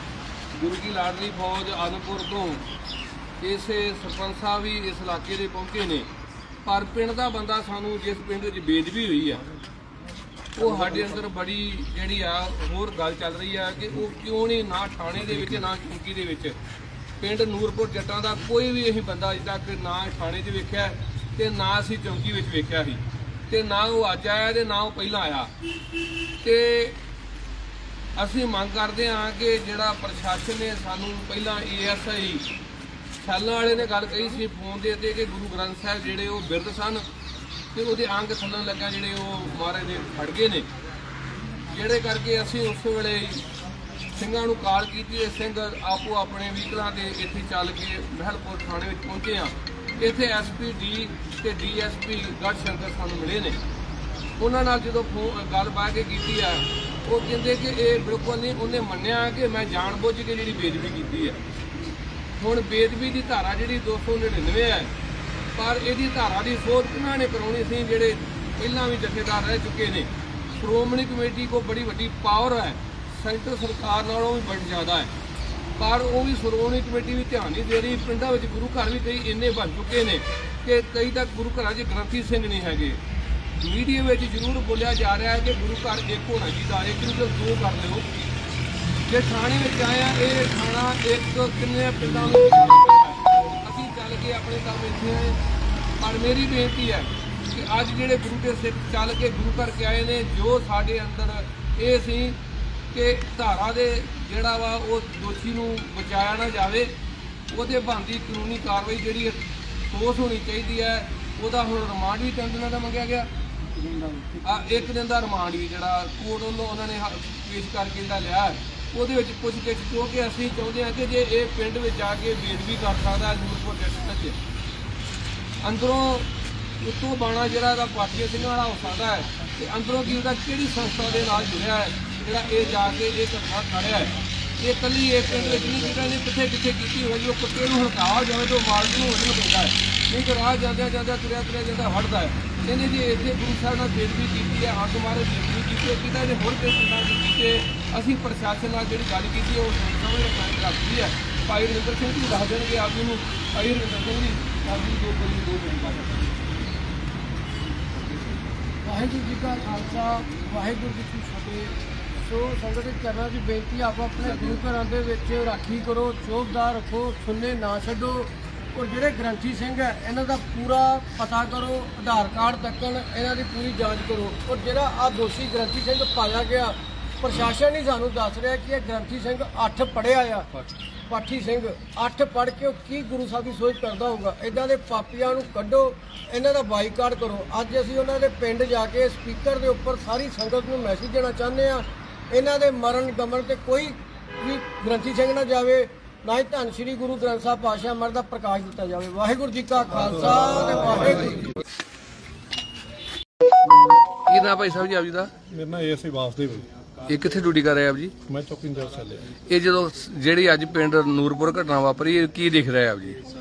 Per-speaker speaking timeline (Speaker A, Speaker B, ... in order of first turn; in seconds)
Speaker A: 0.5-2.6, 3.4-6.1, 6.6-9.4, 10.6-16.6, 17.2-25.5, 26.4-27.0, 28.1-32.5, 33.2-37.1, 37.7-40.7, 41.7-43.4, 44.1-53.6, 54.4-61.4, 62.4-64.9, 65.5-75.1, 75.8-83.0, 83.6-88.1, 89.0-95.4, 96.0-102.4, 102.9-106.9, 107.5-113.3, 114.4-124.4, 125.6-156.3, 204.2-205.3, 207.1-208.1, 209.4-213.2
Speaker B: 113.7-114.9, 158.8-180.5, 181.1-201.5
Speaker C: 199.9-201.5, 205.5-206.7, 208.2-209.3